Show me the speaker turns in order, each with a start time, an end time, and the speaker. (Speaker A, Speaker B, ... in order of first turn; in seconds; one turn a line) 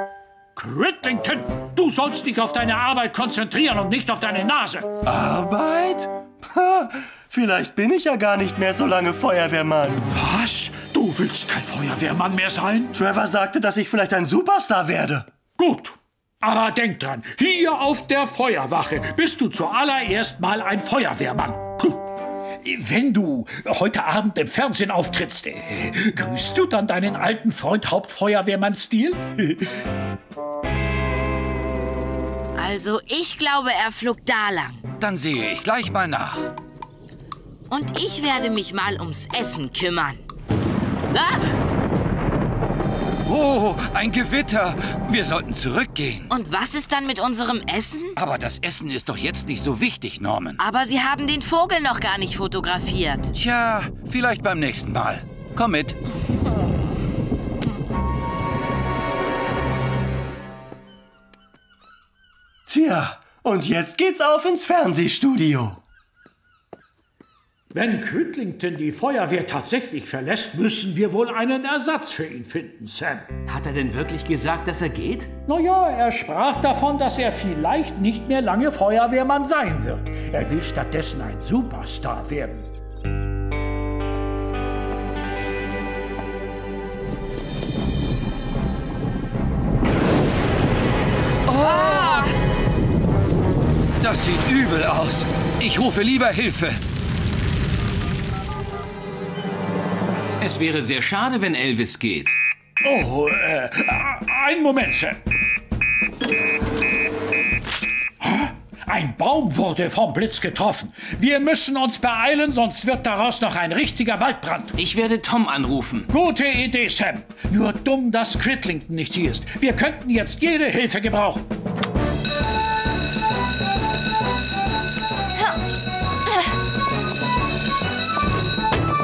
Speaker A: 0.6-4.9
Speaker B: 5.0-10.0
Speaker A: 10.1-12.9
Speaker B: 12.9-15.3
Speaker A: 15.6-22.0
Speaker A: 22.6-29.7
Speaker C: 32.6-34.8
Speaker D: 35.0-36.5
Speaker C: 37.7-40.2
Speaker C: 41.1-41.4
Speaker D: 43.2-46.3
Speaker C: 46.3-48.2
Speaker D: 48.1-50.6
Speaker C: 50.6-53.3
Speaker D: 53.3-56.0
Speaker B: 62.7-65.8
Speaker A: 67.7-73.3
Speaker E: 73.5-75.3
Speaker A: 75.5-82.7
Speaker D: 91.5-92.3
Speaker C: 91.6-92.3
Speaker D: 94.0-96.8
Speaker E: 100.4-102.4
Speaker A: 102.8-105.2
Speaker A: 108.3-114.8
Speaker E: 114.8-116.1
Speaker A: 116.1-121.4